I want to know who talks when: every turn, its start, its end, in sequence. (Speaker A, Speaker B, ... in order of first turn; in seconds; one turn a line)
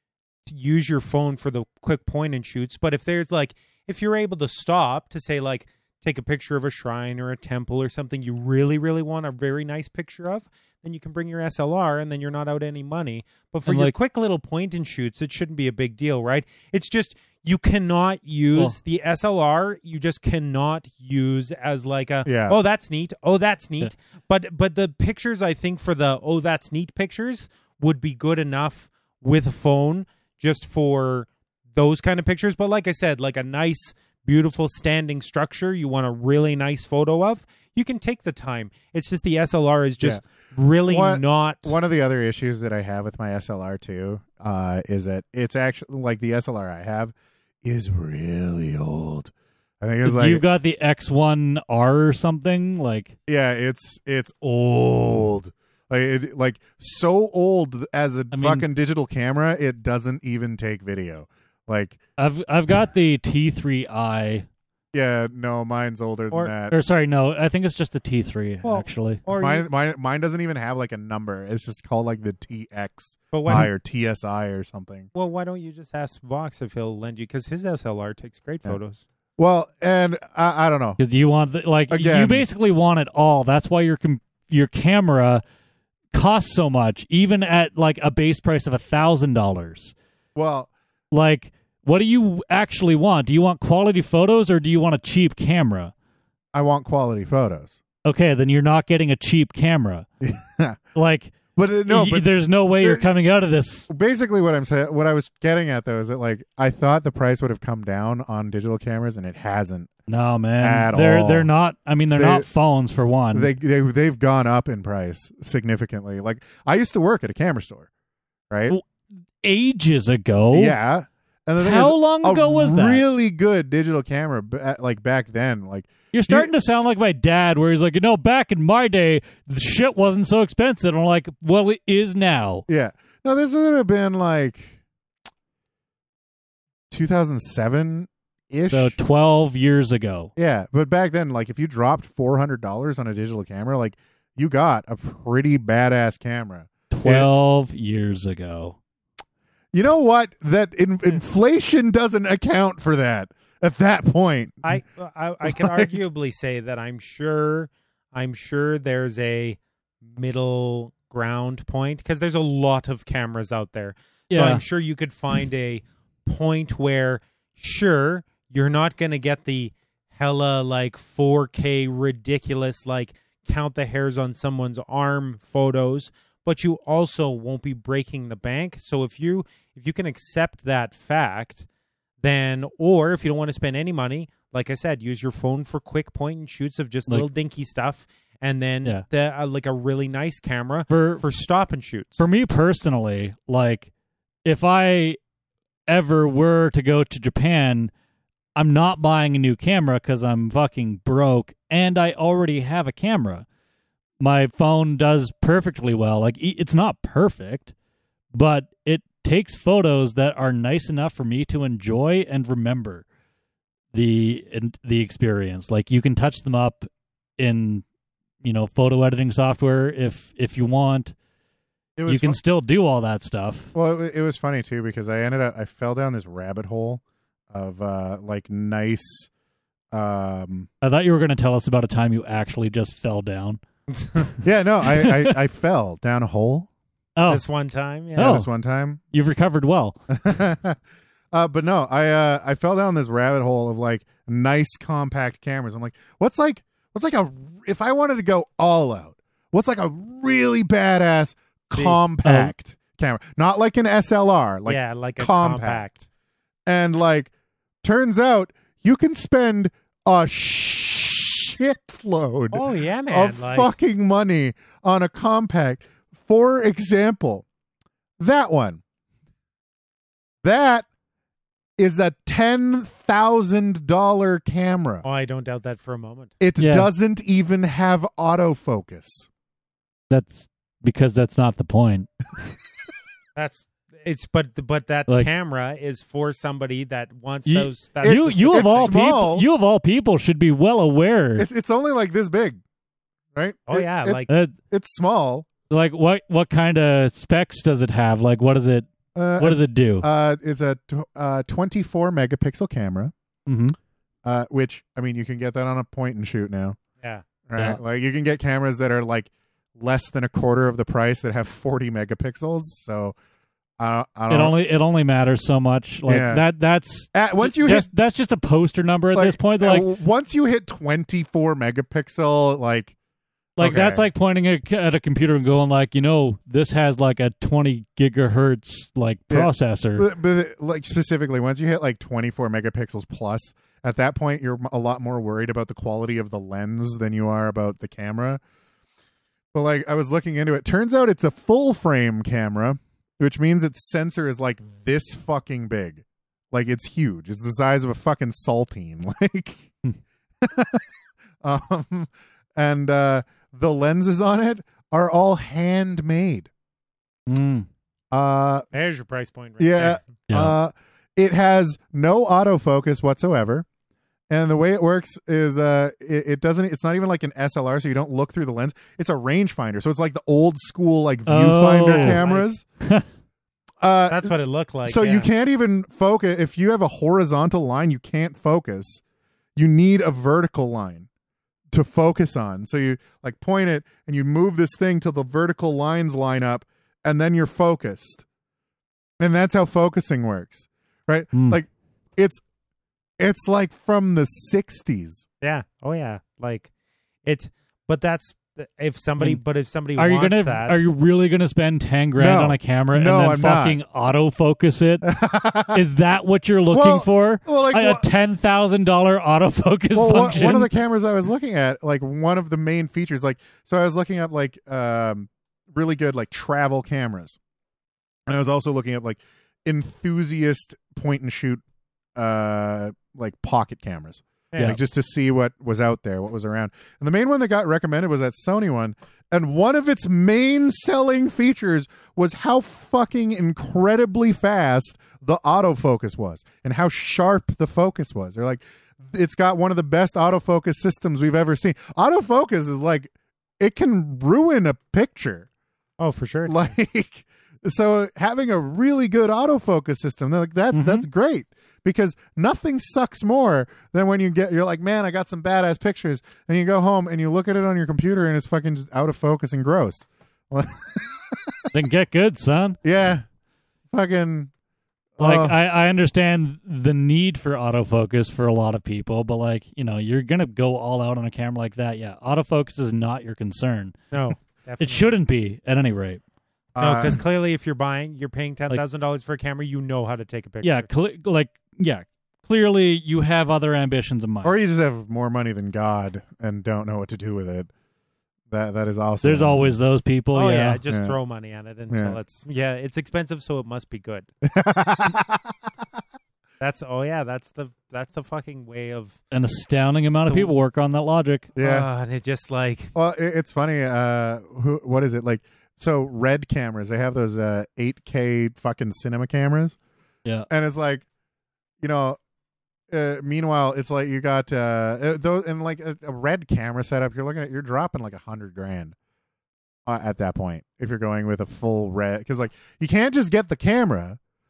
Speaker A: 0.5-41.8
Speaker B: 13.7-13.9
Speaker C: 22.2-22.6
Speaker C: 40.9-50.4
Speaker B: 50.0-53.1
Speaker C: 53.3-62.0
Speaker B: 58.3-58.6
Speaker B: 62.2-64.5
Speaker C: 64.9-66.8
Speaker B: 66.7-69.2
Speaker A: 68.6-69.7
Speaker C: 69.3-75.1
Speaker A: 73.3-73.7
Speaker A: 75.1-79.0
Speaker C: 79.4-81.0
Speaker B: 81.0-85.4
Speaker C: 81.9-82.5
Speaker B: 86.1-89.9
Speaker C: 90.3-90.7
Speaker B: 91.1-95.9
Speaker C: 96.5-97.8
Speaker B: 98.0-100.0
Speaker C: 100.2-100.8
Speaker B: 100.9-101.3
Speaker C: 101.5-102.3
Speaker B: 101.9-103.9
Speaker C: 103.9-109.9
Speaker B: 110.1-113.5
Speaker C: 110.6-111.5
Speaker C: 112.2-112.5
Speaker C: 113.3-117.9
Speaker C: 118.5-118.8
Speaker B: 119.4-120.8
Speaker C: 120.5-126.5
Speaker B: 121.6-123.0
Speaker B: 126.1-132.7
Speaker C: 132.7-134.8
Speaker C: 136.9-139.0
Speaker B: 138.7-140.3
Speaker C: 140.3-147.3
Speaker B: 146.9-148.8
Speaker C: 149.7-154.8
Speaker A: 154.6-181.7
Speaker C: 155.4-155.9
Speaker B: 164.3-164.6
Speaker A: 182.2-192.3
Speaker B: 190.9-191.2
Speaker B: 192.2-193.9
Speaker B: 194.4-195.2
Speaker B: 195.9-197.9
Speaker B: 198.6-203.4
Speaker B: 204.2-207.7
Speaker B: 208.3-213.1
Speaker B: 213.9-217.8
Speaker B: 218.4-221.1
Speaker C: 222.0-222.4
Speaker B: 222.1-223.7
Speaker C: 223.7-229.3
Speaker C: 229.9-230.7
Speaker B: 230.8-233.6
Speaker A: 233.9-234.3
Speaker C: 234.4-236.7
Speaker B: 234.9-235.3
Speaker B: 237.2-237.4
Speaker A: 237.3-238.3
Speaker B: 238.2-238.5
Speaker C: 238.2-239.0
Speaker B: 239.1-240.0
Speaker C: 240.1-240.8
Speaker C: 241.3-255.8
Speaker A: 251.7-252.0
Speaker B: 252.2-252.5
Speaker A: 254.7-256.1
Speaker C: 256.6-257.3
Speaker C: 257.8-267.4
Speaker A: 262.5-263.7
Speaker C: 268.2-268.8
Speaker C: 270.4-270.9
Speaker C: 271.8-275.0
Speaker A: 275.0-276.3
Speaker C: 276.4-279.3
Speaker B: 276.6-276.9
Speaker B: 280.1-282.1
Speaker A: 283.4-288.9
Speaker B: 287.4-291.5
Speaker C: 288.0-289.4
Speaker C: 291.4-292.6
Speaker C: 293.3-295.5
Speaker A: 293.7-294.3
Speaker B: 294.3-294.5
Speaker B: 295.7-298.9
Speaker C: 299.1-303.1
Speaker B: 299.4-300.1
Speaker B: 303.4-303.8
Speaker C: 304.2-306.8
Speaker C: 307.4-313.1
Speaker C: 313.8-314.6
Speaker B: 314.3-319.9
Speaker C: 316.1-316.4
Speaker C: 317.1-317.9
Speaker C: 319.1-322.9
Speaker C: 323.6-324.1
Speaker B: 323.6-330.1
Speaker C: 329.3-338.4
Speaker C: 339.5-349.7
Speaker C: 350.4-350.8
Speaker C: 351.4-356.5
Speaker B: 357.3-357.7
Speaker C: 358.1-358.7
Speaker A: 358.7-360.1
Speaker C: 359.6-363.6
Speaker B: 360.3-360.6
Speaker C: 364.3-372.6
Speaker B: 371.3-372.2
Speaker A: 371.9-372.5
Speaker B: 372.8-373.1
Speaker C: 373.8-374.3
Speaker A: 374.1-375.3
Speaker C: 374.9-379.0
Speaker C: 379.6-381.1
Speaker C: 381.7-388.2
Speaker C: 389.2-392.4
Speaker B: 391.3-391.6
Speaker C: 393.2-395.2
Speaker A: 395.4-396.7
Speaker A: 397.2-400.8
Speaker B: 400.0-405.1
Speaker C: 402.2-403.8
Speaker C: 405.0-405.8
Speaker B: 405.7-410.7
Speaker C: 406.7-408.1
Speaker C: 409.9-417.4
Speaker C: 418.3-421.6
Speaker C: 422.1-445.5
Speaker A: 424.5-424.8
Speaker A: 446.0-446.7
Speaker C: 446.5-461.6
Speaker B: 450.7-451.1
Speaker B: 461.7-462.8
Speaker C: 462.8-463.2
Speaker C: 463.9-464.5
Speaker C: 465.2-465.5
Speaker B: 465.2-474.0
Speaker A: 474.1-475.1
Speaker B: 474.8-476.2
Speaker C: 476.7-477.2
Speaker A: 476.8-480.9
Speaker B: 480.6-484.5
Speaker C: 484.4-487.7
Speaker C: 488.5-489.7
Speaker B: 489.2-490.8
Speaker A: 490.3-494.3
Speaker C: 490.9-491.2
Speaker C: 491.9-492.2
Speaker C: 494.4-495.7
Speaker A: 496.6-499.2
Speaker B: 499.3-501.5
Speaker C: 501.6-501.9
Speaker A: 501.6-502.9
Speaker C: 502.9-509.8
Speaker C: 510.5-511.1
Speaker C: 511.8-512.2
Speaker C: 512.9-518.9
Speaker C: 519.9-524.2